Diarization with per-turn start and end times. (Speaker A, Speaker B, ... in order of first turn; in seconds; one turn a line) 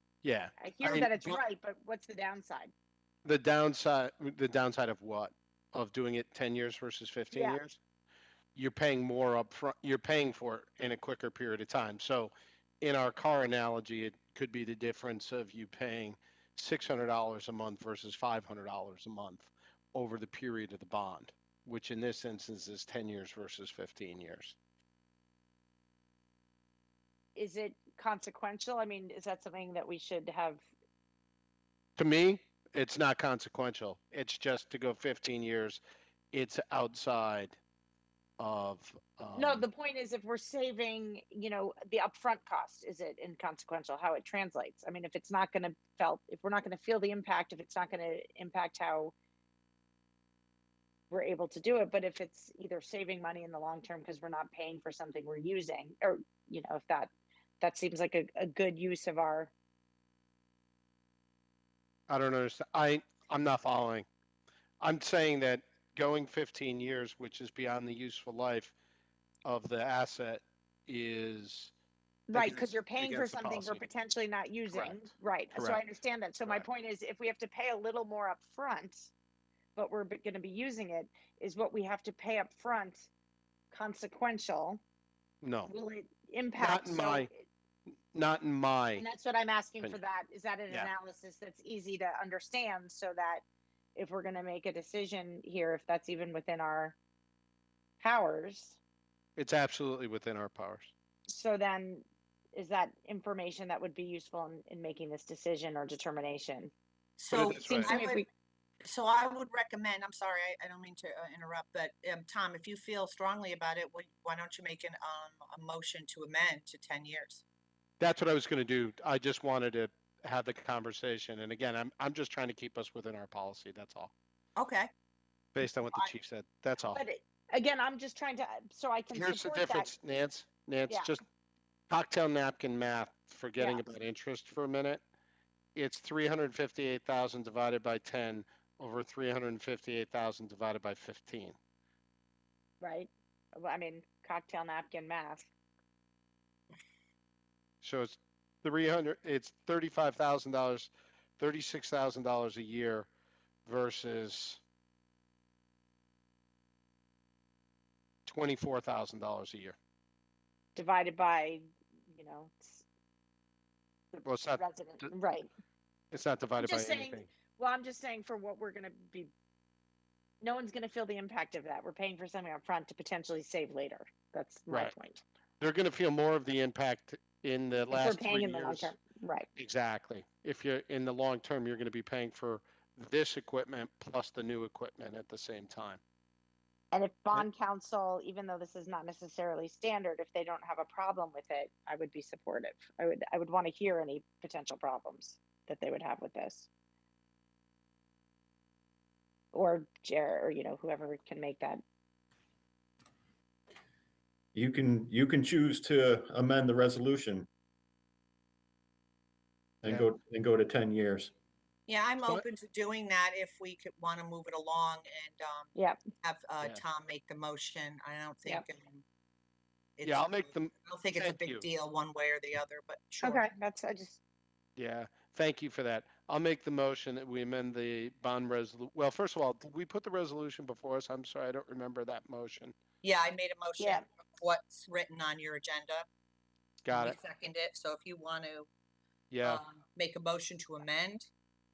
Speaker A: 0.2-1.4
Speaker B: 0.6-2.7
Speaker A: 3.2-7.8
Speaker B: 7.3-7.6
Speaker A: 8.5-24.5
Speaker B: 27.3-30.6
Speaker A: 32.0-35.8
Speaker A: 36.3-37.6
Speaker A: 38.4-39.6
Speaker B: 39.3-49.1
Speaker B: 51.1-59.5
Speaker A: 62.1-64.0
Speaker A: 64.8-68.7
Speaker A: 69.4-71.7
Speaker B: 72.3-79.1
Speaker A: 72.3-73.8
Speaker A: 74.7-75.0
Speaker A: 75.5-75.8
Speaker B: 79.8-83.1
Speaker B: 83.7-84.8
Speaker A: 85.4-85.7
Speaker B: 85.7-87.4
Speaker A: 86.6-87.3
Speaker A: 88.1-89.0
Speaker B: 89.0-93.4
Speaker B: 93.9-97.0
Speaker B: 98.0-98.8
Speaker A: 99.3-100.9
Speaker B: 101.3-106.7
Speaker C: 107.2-108.2
Speaker A: 107.3-108.0
Speaker B: 107.3-108.3
Speaker C: 108.8-117.4
Speaker A: 118.0-124.1
Speaker C: 124.6-124.9
Speaker A: 125.5-127.0
Speaker B: 126.8-129.9
Speaker A: 129.1-131.2
Speaker A: 131.9-135.0
Speaker A: 135.7-141.6
Speaker B: 142.8-145.5
Speaker A: 147.8-153.1
Speaker A: 153.7-154.6
Speaker A: 158.2-159.8
Speaker B: 160.7-162.8
Speaker B: 164.1-165.5
Speaker A: 164.2-165.1
Speaker A: 166.1-167.3
Speaker B: 166.6-169.3
Speaker B: 170.4-175.2
Speaker A: 175.6-178.9
Speaker B: 177.9-179.5
Speaker A: 179.6-186.0
Speaker B: 186.9-196.7
Speaker B: 199.5-201.8
Speaker D: 204.5-207.5
Speaker D: 209.8-211.3
Speaker C: 211.9-219.0
Speaker C: 220.0-223.4
Speaker A: 220.0-221.7
Speaker B: 223.2-224.2
Speaker A: 224.8-232.7
Speaker C: 233.0-236.1
Speaker B: 233.8-234.0
Speaker A: 236.8-237.2
Speaker C: 236.9-238.7
Speaker A: 239.3-239.6
Speaker C: 239.4-241.3